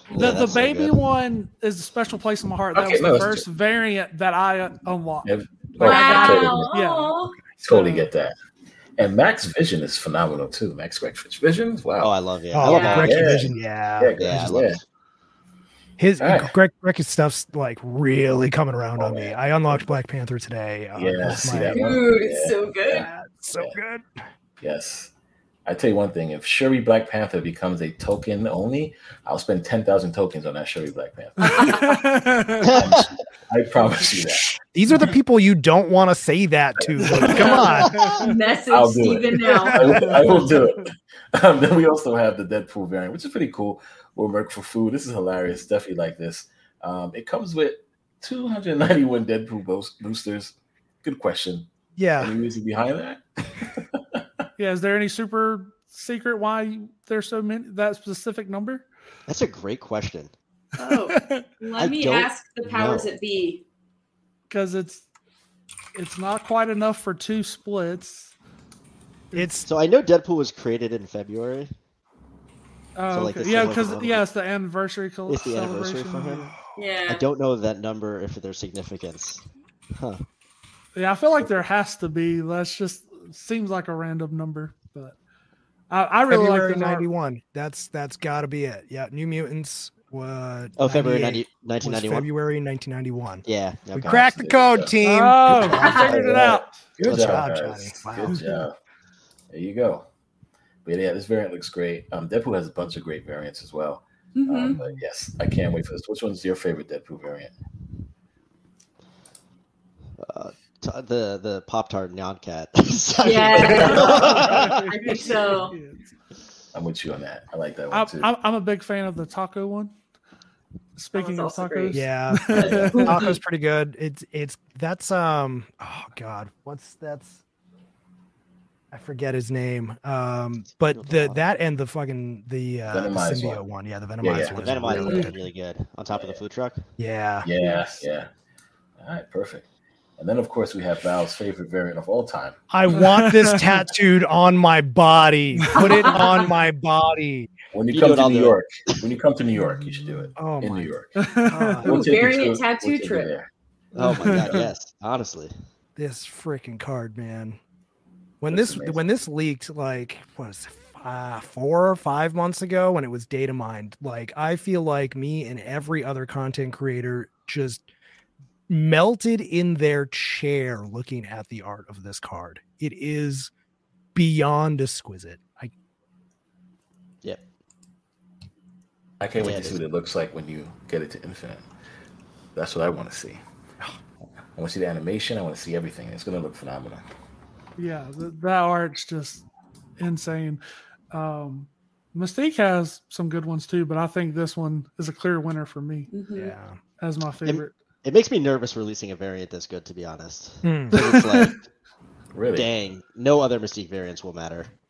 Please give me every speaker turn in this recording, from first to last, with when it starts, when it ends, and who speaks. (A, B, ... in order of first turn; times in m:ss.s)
0:00.1-0:01.0 A
0:00.1-0:07.1 B
0:02.7-0:03.5 C
0:05.2-0:06.7 C
0:05.8-0:07.4 D
0:07.6-0:08.4 C
0:07.7-0:08.1 B
0:09.0-0:12.1 C
0:12.0-0:13.5 A
0:12.5-0:14.6 E
0:12.6-0:13.2 D
0:12.8-0:14.8 C
0:14.2-0:14.8 A
0:16.0-0:21.9 E
0:16.2-0:16.5 C
0:19.0-0:20.0 C
0:21.0-0:23.8 C
0:21.7-0:23.1 D
0:23.0-0:24.2 E
0:24.6-0:25.1 C
0:25.7-0:34.5 C
0:31.4-0:31.8 D
0:31.4-0:32.8 B
0:32.7-0:33.0 A
0:34.5-0:38.1 E
0:37.0-0:37.6 C
0:37.3-0:37.7 D
0:37.8-0:38.4 B
0:38.2-0:40.0 D
0:38.7-0:54.2 C
0:39.6-0:40.4 E
0:40.2-0:40.6 B
0:52.0-0:52.3 E
0:54.6-0:58.9 B
0:59.3-1:00.3 A
1:00.8-1:03.6 D
1:00.8-1:01.5 B
1:01.8-1:03.1 A
1:04.5-1:05.0 B
1:06.0-1:08.4 B
1:09.3-1:09.7 E
1:09.6-1:11.7 A
1:13.0-1:16.5 B
1:13.1-1:14.2 A
1:15.3-1:16.5 A
1:16.8-1:17.3 D
1:17.1-1:19.4 A
1:20.0-1:20.2 A
1:21.0-1:25.2 B
1:25.9-1:27.1 B
1:26.3-1:36.4 E
1:30.8-1:32.3 A
1:33.5-1:34.5 A
1:34.3-1:34.9 C
1:35.0-1:36.9 B
1:35.7-1:36.1 D
1:35.9-1:37.4 A
1:37.0-1:38.8 C
1:37.0-1:38.4 E
1:39.5-1:40.1 C
1:40.8-1:47.5 C
1:44.4-1:44.8 D
1:50.2-1:54.8 A
1:53.2-1:55.8 D
1:53.6-1:54.7 C
1:54.0-1:56.0 B
1:56.7-1:58.3 C
1:57.9-2:00.0 B
2:01.0-2:03.2 B
2:01.2-2:02.0 D
2:01.9-2:07.4 E
2:02.5-2:03.2 C
2:02.9-2:03.4 D
2:08.9-2:15.4 E
2:10.8-2:11.4 A
2:12.9-2:13.6 C
2:14.2-2:15.2 C
2:14.2-2:16.8 A
2:17.0-2:17.5 E
2:17.4-2:18.3 C
2:19.0-2:19.6 C
2:20.2-2:22.6 C
2:22.7-2:27.5 E
2:23.0-2:23.7 B
2:25.6-2:25.9 B
2:25.7-2:26.5 D
2:27.7-2:31.1 C
2:27.9-2:28.6 A
2:30.4-2:30.9 E
2:31.2-2:32.0 B
2:31.5-2:32.1 E
2:31.8-2:33.5 C
2:31.8-2:33.3 D
2:34.0-2:35.5 A
2:34.0-2:34.6 B
2:34.3-2:34.6 C
2:36.0-2:37.6 E
2:38.4-2:47.8 E
2:38.5-2:39.0 C
2:48.7-2:53.5 E
2:54.2-2:55.7 E
2:59.2-3:01.7 C
2:59.4-2:59.8 A
3:02.6-3:03.4 C
3:04.6-3:07.0 C
3:07.8-3:09.4 B
3:10.0-3:16.1 B
3:16.1-3:16.5 D
3:16.4-3:16.8 E
3:17.0-3:17.8 B
3:17.4-3:21.6 A
3:20.6-3:21.1 E
3:21.0-3:21.5 B
3:22.3-3:22.7 C
3:22.6-3:24.7 A